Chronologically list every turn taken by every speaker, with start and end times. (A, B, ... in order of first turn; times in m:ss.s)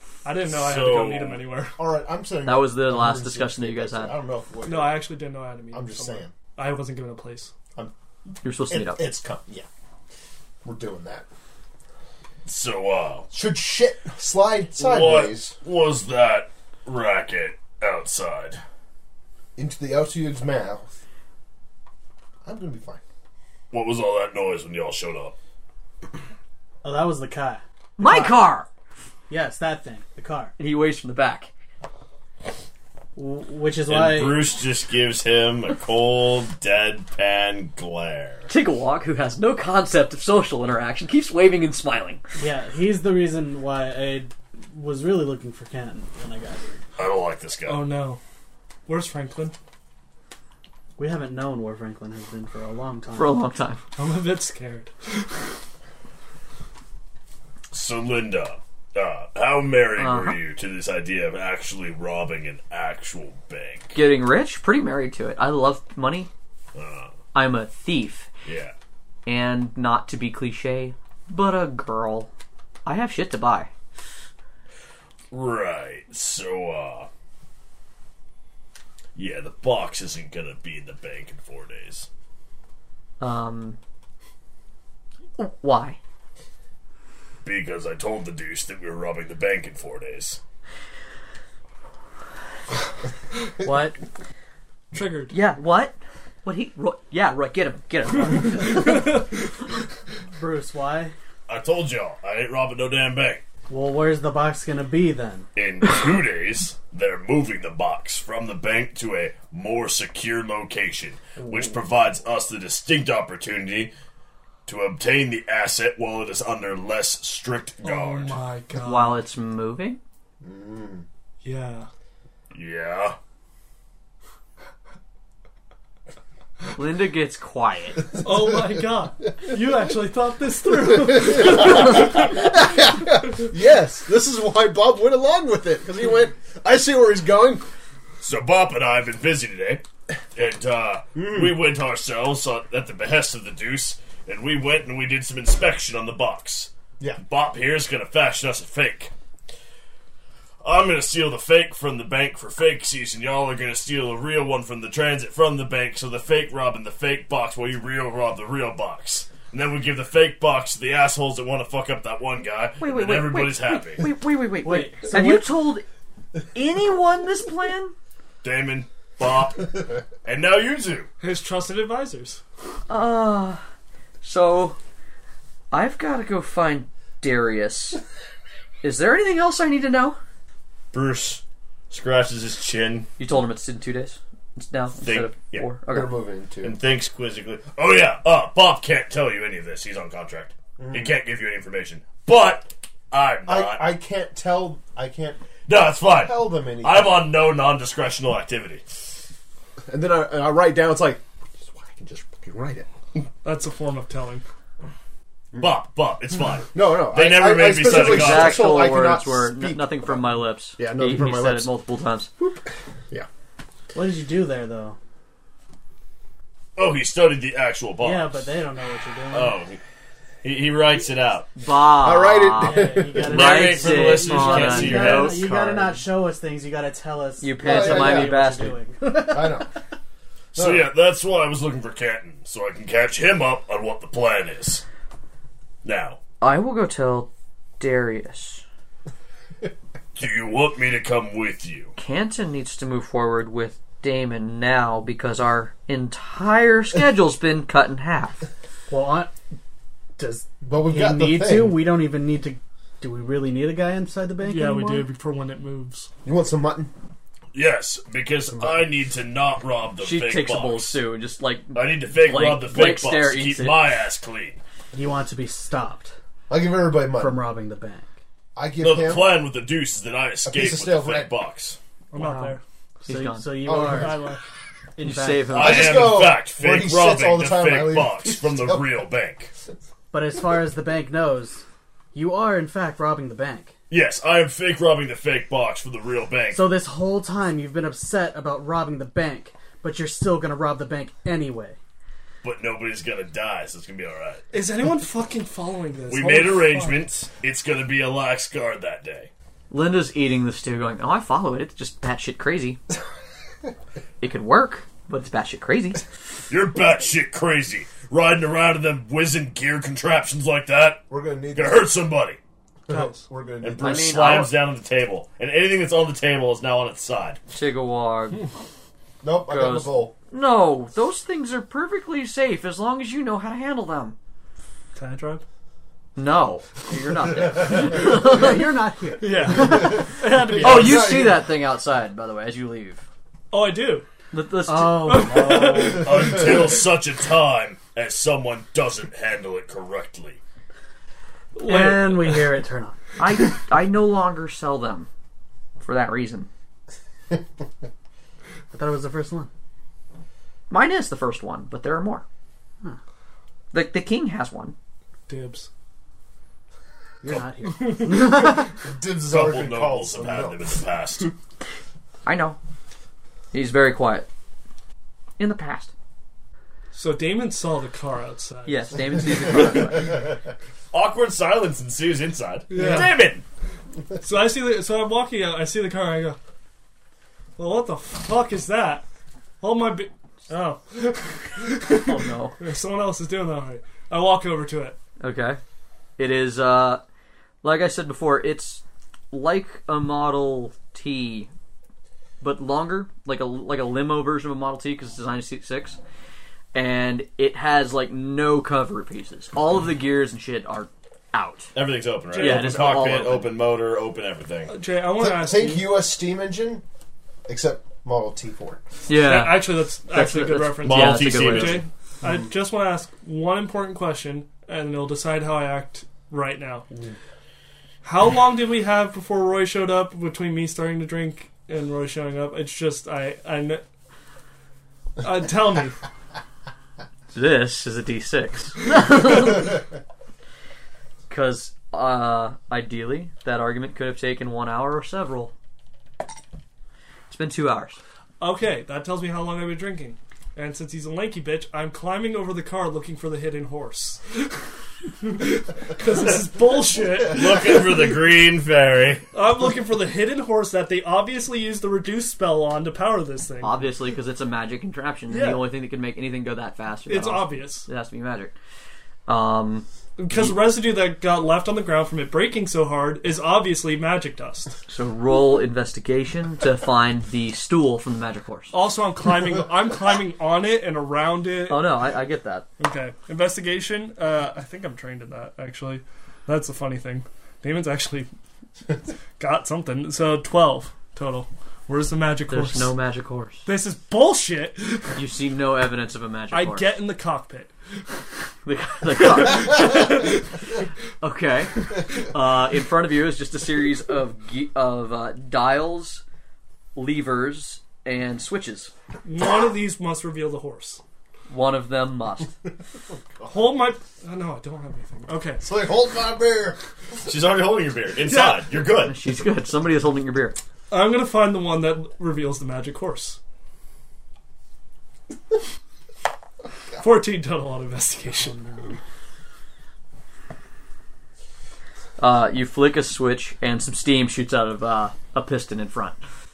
0:00.2-0:01.8 A
0:00.5-0:01.4 B
0:01.8-0:05.0 C
0:02.4-0:04.1 D
0:04.6-0:07.5 A
0:05.7-0:06.3 C
0:08.4-0:09.0 D
0:08.7-0:09.7 C
0:10.6-0:11.2 C
0:12.4-0:13.3 B
0:13.3-0:15.6 C
0:14.8-0:18.6 B
0:19.6-0:20.9 C
0:22.4-0:23.0 C
0:23.7-0:25.3 B
0:26.8-0:28.4 E
0:28.0-0:28.7 D
0:29.3-0:30.5 E
0:30.6-0:31.5 D
0:33.2-0:34.6 E
0:33.9-0:38.5 B
0:38.5-0:42.2 D
0:42.4-0:46.8 E
0:47.0-0:47.8 B
0:47.6-0:48.2 A
0:48.9-0:49.5 A
0:51.0-0:53.3 E
0:53.1-0:53.8 D
0:54.0-0:55.4 A
0:57.7-1:04.0 B
1:00.0-1:00.4 D
1:03.9-1:06.3 D
1:06.7-1:07.1 B
1:07.3-1:08.3 D
1:08.4-1:08.7 B
1:09.2-1:12.3 D
1:12.8-1:13.7 D
1:15.3-1:17.1 B
1:19.2-1:22.1 B
1:23.2-1:23.8 D
1:25.4-1:26.0 D
1:27.4-1:30.4 B
1:33.6-1:34.0 E
1:34.9-1:35.4 A
1:35.3-1:39.2 D
1:38.7-1:39.4 A
1:40.3-1:41.1 E
1:41.5-1:43.4 B
1:43.7-1:45.5 E
1:45.6-1:53.9 B
1:54.6-1:58.4 B
1:57.8-1:59.2 A
1:58.8-2:00.0 D
2:00.4-2:01.0 C
2:01.4-2:01.9 A
2:02.5-2:03.2 B
2:06.8-2:08.1 D
2:08.2-2:12.3 A
2:11.0-2:17.6 C
2:18.2-2:19.8 B
2:20.3-2:29.1 B
2:21.2-2:21.6 C
2:30.6-2:44.1 B
2:42.8-2:45.8 D
2:44.6-2:45.5 E
2:46.5-2:47.9 D
2:48.4-2:51.1 B
2:51.2-2:52.4 A
2:52.9-2:53.6 D
2:54.2-2:54.8 D
2:55.7-2:58.0 D
2:58.8-3:00.2 D
3:00.9-3:03.1 B
3:03.2-3:06.1 D
3:05.0-3:05.7 B
3:05.9-3:06.8 C
3:06.6-3:13.9 B
3:10.8-3:11.1 C
3:13.4-3:15.4 C
3:15.7-3:18.8 B
3:16.1-3:17.2 C
3:19.9-3:22.9 C
3:23.4-3:24.4 A
3:25.6-3:28.8 B
3:26.7-3:31.7 C
3:27.8-3:32.3 D
3:32.4-3:33.3 C
3:33.9-3:35.0 E
3:36.8-3:38.4 B
3:38.0-3:39.6 E
3:39.3-3:39.8 B
3:40.4-3:41.5 B
3:41.6-3:46.0 D
3:41.9-3:43.3 C
3:42.6-3:49.7 E
3:43.2-3:45.5 B
3:47.4-3:48.8 D
3:47.6-3:48.4 C
3:49.2-3:49.7 C
3:50.5-3:54.8 B
3:50.5-3:50.9 C
3:55.8-3:56.2 B
3:56.4-3:58.6 D
4:00.1-4:01.9 B
4:02.0-4:08.4 D
4:08.9-4:09.3 E
4:10.2-4:15.0 E
4:10.6-4:11.8 C
4:14.4-4:16.1 A
4:16.2-4:16.9 C
4:17.5-4:21.0 B
4:20.0-4:23.8 D
4:21.7-4:24.6 B
4:24.9-4:26.1 E
4:26.5-4:27.4 C
4:27.1-4:28.1 E
4:28.6-4:29.4 C
4:28.8-4:31.8 B
4:30.4-4:31.3 C
4:32.1-4:32.6 A
4:32.2-4:33.5 D
4:33.0-4:34.3 E
4:33.6-4:34.4 C
4:33.6-4:34.4 A
4:35.0-4:35.6 E
4:35.0-4:36.2 D
4:35.5-4:39.5 B
4:35.5-4:38.9 C
4:40.1-4:43.7 E
4:43.9-4:46.7 B
4:46.5-4:51.8 E
4:52.4-4:54.4 B
4:54.5-4:57.0 A
4:56.1-4:59.3 B
4:59.7-5:02.8 D
5:04.2-5:06.0 D
5:06.5-5:12.4 B
5:11.1-5:11.9 C
5:12.9-5:14.1 C
5:12.9-5:13.2 A
5:13.6-5:17.4 B
5:13.8-5:14.5 D
5:17.5-5:18.4 D
5:19.2-5:20.1 C
5:19.4-5:24.2 D
5:24.9-5:25.4 A
5:26.2-5:28.4 D
5:27.7-5:30.1 E
5:28.0-5:28.4 A
5:29.2-5:31.1 A
5:29.5-5:31.4 C
5:30.6-5:33.0 D
5:33.5-5:34.1 A
5:34.3-5:35.3 D
5:34.7-5:36.0 E
5:34.9-5:36.4 A
5:35.9-5:40.4 B
5:41.5-5:42.5 A
5:41.6-5:43.0 E
5:43.2-5:45.1 D
5:45.8-5:46.5 D
5:48.7-5:49.5 E
5:50.7-5:52.2 D
5:53.7-5:54.7 D
5:55.3-5:55.7 A
5:57.2-5:57.5 C
5:57.3-5:58.7 E
5:57.6-5:58.4 A
5:58.8-6:00.7 C
5:59.3-6:01.3 B
6:02.2-6:02.6 D
6:03.5-6:04.3 D
6:05.4-6:05.9 D
6:06.9-6:09.4 A
6:08.6-6:10.2 D
6:10.9-6:13.4 B
6:12.7-6:13.2 A
6:14.2-6:16.4 A
6:17.6-6:19.0 A
6:19.6-6:25.0 A
6:21.9-6:22.6 D
6:25.2-6:25.6 D
6:26.2-6:27.0 D
6:27.6-6:31.5 D
6:32.4-6:36.0 D
6:36.7-6:41.7 D
6:41.7-6:44.7 B
6:42.3-6:42.9 A
6:42.3-6:43.5 D
6:42.8-6:43.2 C
6:44.7-6:45.9 A
6:45.2-6:46.8 C
6:47.5-6:48.8 C
6:49.1-6:51.8 D
6:49.1-6:56.8 A
6:50.8-6:51.8 B
6:58.0-7:03.8 A
7:05.2-7:06.0 A
7:07.3-7:09.7 D
7:11.3-7:15.5 D
7:17.3-7:18.0 D
7:18.4-7:24.7 A
7:25.2-7:27.9 A
7:27.2-7:29.2 B
7:29.3-7:33.8 A
7:33.6-7:38.5 D
7:35.3-7:35.6 A
7:37.1-7:37.9 A
7:39.3-7:40.6 D
7:40.2-7:44.8 A
7:44.9-7:48.7 D
7:48.7-7:51.9 A
7:51.7-7:52.6 D
7:52.8-7:58.3 A
7:59.4-8:02.9 A
8:02.5-8:03.6 D
8:03.6-8:05.2 A
8:05.1-8:06.9 D
8:06.5-8:07.7 A
8:08.6-8:10.4 D
8:09.5-8:10.3 A
8:11.2-8:16.2 D
8:16.9-8:18.9 D
8:19.2-8:21.0 A
8:21.5-8:22.5 D
8:23.4-8:25.6 A
8:25.6-8:26.8 C
8:27.2-8:29.2 B
8:28.2-8:28.8 A
8:29.0-8:30.6 D
8:30.9-8:33.4 A
8:37.0-8:38.6 A
8:42.2-8:46.2 D